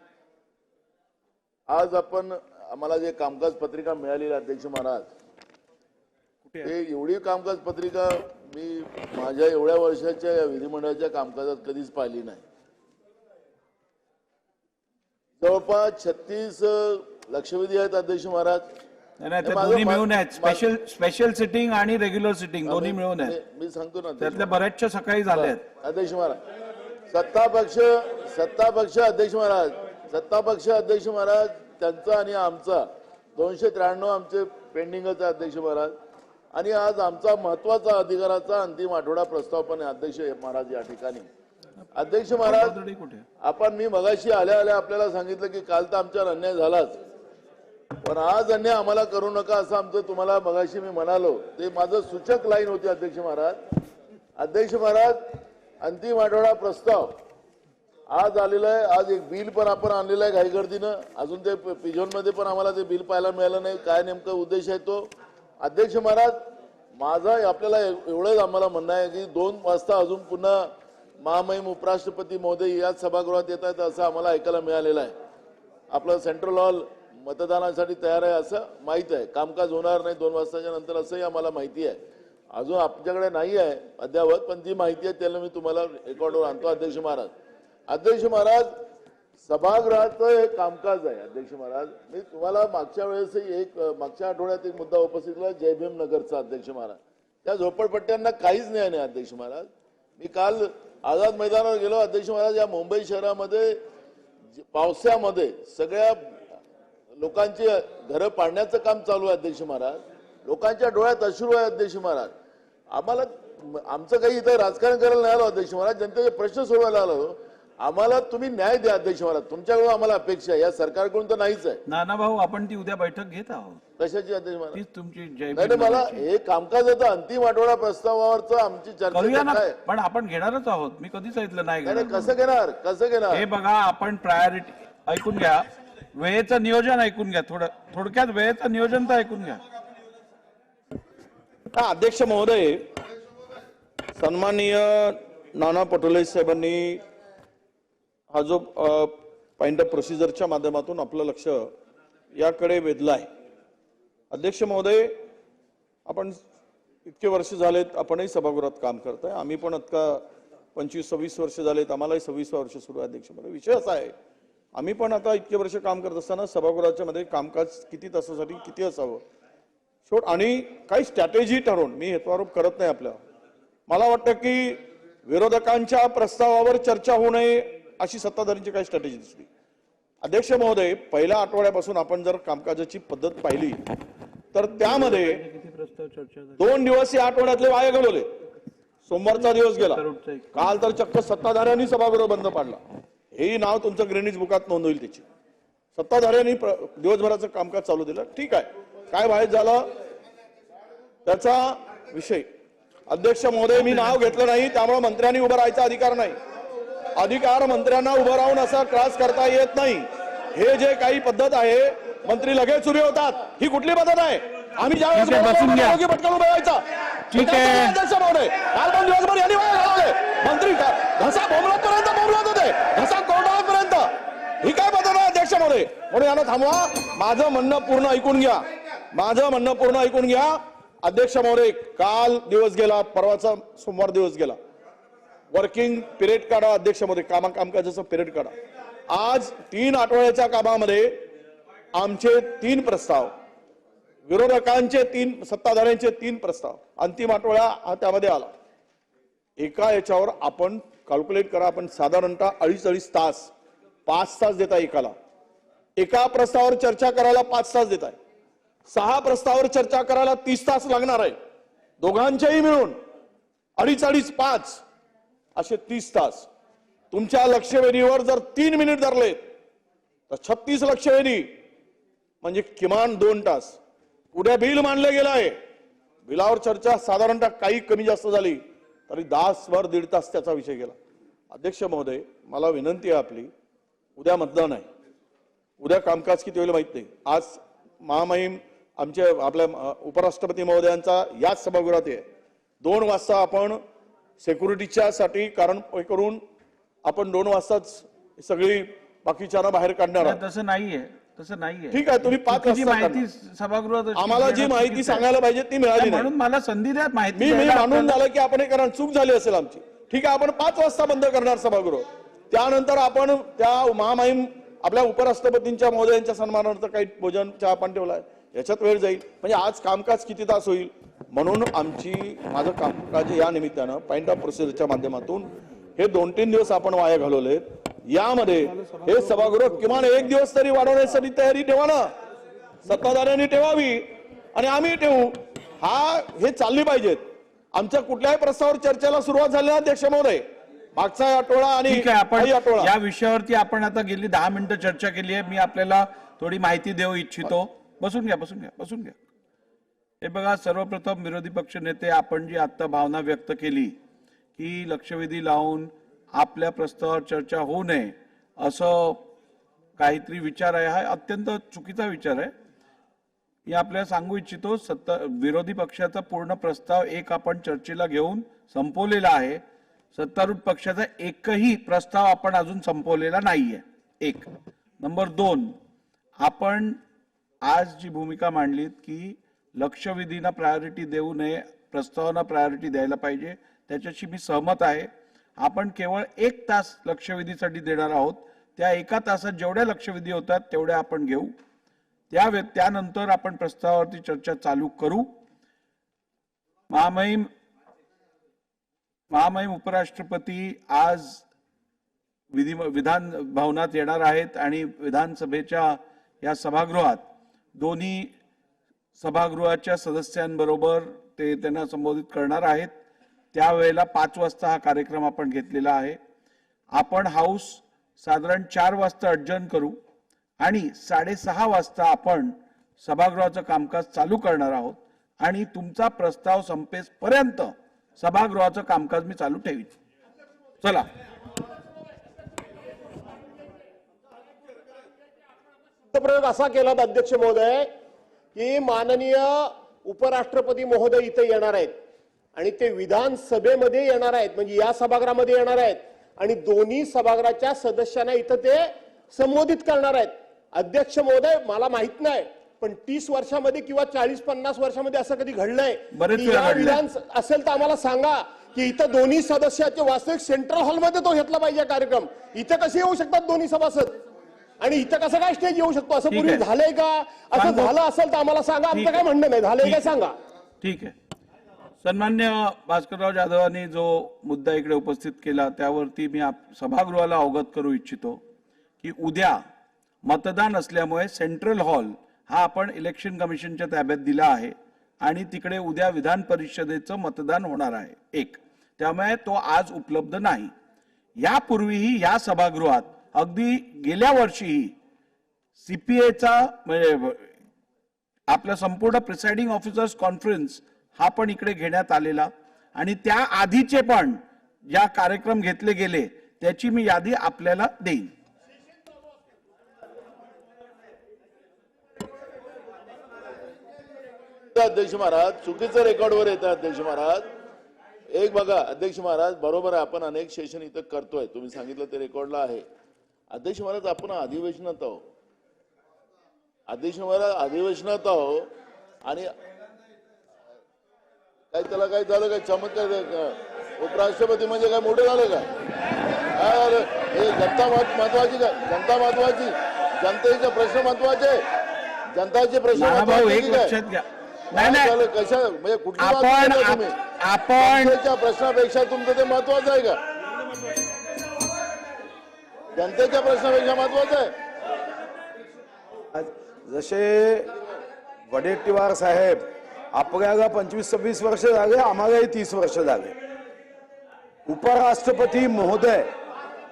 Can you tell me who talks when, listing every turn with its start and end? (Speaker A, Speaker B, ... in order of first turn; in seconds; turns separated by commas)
Speaker A: 1.7-5.1, Speaker A: 6.6-12.4, Speaker A: 15.4-18.6, Speaker B: 19.2-23.4, Speaker A: 19.4-20.6, Speaker A: 22.6-24.5, Speaker B: 24.2-25.6, Speaker A: 25.3-26.4, Speaker A: 27.1-35.9, Speaker A: 36.5-41.3, Speaker A: 42.0-42.8, Speaker B: 42.4-43.3, Speaker A: 43.4-47.0, Speaker A: 48.0-53.6, Speaker A: 54.4-55.2, Speaker A: 55.8-57.1, Speaker A: 58.1-65.1, Speaker A: 65.6-66.4, Speaker A: 67.0-70.7, Speaker A: 71.2-75.1, Speaker A: 75.9-82.0, Speaker A: 82.5-87.3, Speaker A: 87.9-88.7, Speaker A: 89.4-103.8, Speaker A: 104.7-106.2, Speaker A: 107.2-112.3, Speaker A: 112.9-121.8, Speaker B: 121.9-123.8, Speaker A: 124.0-124.8, Speaker B: 124.7-126.2, Speaker A: 125.5-129.8, Speaker B: 129.1-132.3, Speaker A: 131.8-133.4, Speaker B: 133.3-139.6, Speaker C: 141.7-142.8, Speaker C: 144.2-147.0, Speaker C: 148.3-151.7, Speaker C: 152.3-153.3, Speaker C: 154.3-155.2, Speaker C: 156.1-156.4, Speaker C: 157.1-160.2, Speaker C: 160.8-164.2, Speaker C: 164.8-169.2, Speaker C: 170.1-173.2, Speaker C: 173.9-179.5, Speaker C: 180.2-183.8, Speaker C: 184.5-185.4, Speaker B: 184.7-186.7, Speaker C: 186.6-188.3, Speaker C: 189.1-190.0, Speaker B: 189.3-190.7, Speaker C: 190.6-192.8, Speaker C: 193.3-195.2, Speaker C: 195.9-199.9, Speaker C: 201.3-202.5, Speaker C: 203.1-206.4, Speaker B: 203.8-204.4, Speaker C: 207.2-224.1, Speaker B: 215.1-216.0, Speaker B: 217.3-218.0, Speaker C: 224.6-228.6, Speaker C: 229.1-234.6, Speaker C: 235.5-238.5, Speaker C: 239.1-241.1, Speaker C: 241.9-243.3, Speaker C: 244.3-248.5, Speaker C: 249.6-253.5, Speaker C: 254.1-255.2, Speaker C: 256.0-258.2, Speaker C: 258.9-261.4, Speaker C: 262.0-263.0, Speaker C: 263.8-264.8, Speaker C: 265.6-266.5, Speaker C: 267.1-269.4, Speaker C: 270.3-271.5, Speaker C: 272.4-273.8, Speaker C: 274.3-275.6, Speaker C: 276.2-281.0, Speaker C: 281.5-283.5, Speaker C: 284.2-284.9, Speaker C: 285.8-292.3, Speaker C: 292.8-293.8, Speaker C: 294.4-296.4, Speaker C: 297.1-300.4, Speaker B: 300.2-305.2, Speaker C: 301.9-303.2, Speaker C: 304.1-306.3, Speaker B: 306.0-308.2, Speaker C: 307.4-332.1, Speaker C: 332.8-342.9, Speaker B: 341.9-349.1, Speaker B: 350.2-353.9, Speaker B: 354.6-359.2, Speaker B: 360.0-362.5, Speaker B: 363.7-369.6, Speaker B: 370.1-374.5, Speaker B: 375.0-375.7, Speaker B: 376.4-377.0, Speaker B: 377.6-385.1, Speaker B: 385.6-391.5, Speaker B: 392.3-395.3, Speaker B: 396.9-397.5, Speaker B: 399.3-401.4, Speaker B: 402.5-407.2, Speaker B: 407.8-408.3, Speaker B: 409.2-412.9, Speaker B: 413.5-416.2, Speaker B: 416.9-420.0, Speaker B: 420.6-430.0, Speaker B: 430.8-431.1, Speaker D: 436.1-437.9, Speaker D: 438.6-441.9, Speaker D: 442.6-464.2, Speaker B: 456.1-457.0, Speaker D: 464.8-470.4, Speaker B: 466.3-466.6, Speaker B: 467.5-467.9, Speaker B: 468.9-469.3, Speaker B: 469.8-470.1, Speaker B: 470.8-471.1, Speaker B: 472.0-478.4, Speaker B: 479.0-479.6, Speaker B: 480.2-490.7, Speaker B: 491.4-494.9, Speaker B: 495.8-497.5, Speaker B: 498.5-508.3, Speaker A: 514.7-517.5, Speaker A: 518.3-522.8, Speaker A: 523.5-525.2, Speaker A: 526.9-528.7, Speaker A: 529.2-529.5, Speaker A: 531.7-535.7, Speaker A: 536.5-541.6, Speaker A: 542.4-543.9, Speaker B: 542.9-545.1, Speaker A: 544.7-547.2, Speaker B: 546.2-548.1, Speaker A: 547.8-550.2, Speaker A: 553.0-554.5, Speaker E: 556.3-557.7, Speaker E: 558.5-559.6, Speaker E: 560.1-563.3, Speaker E: 564.7-566.3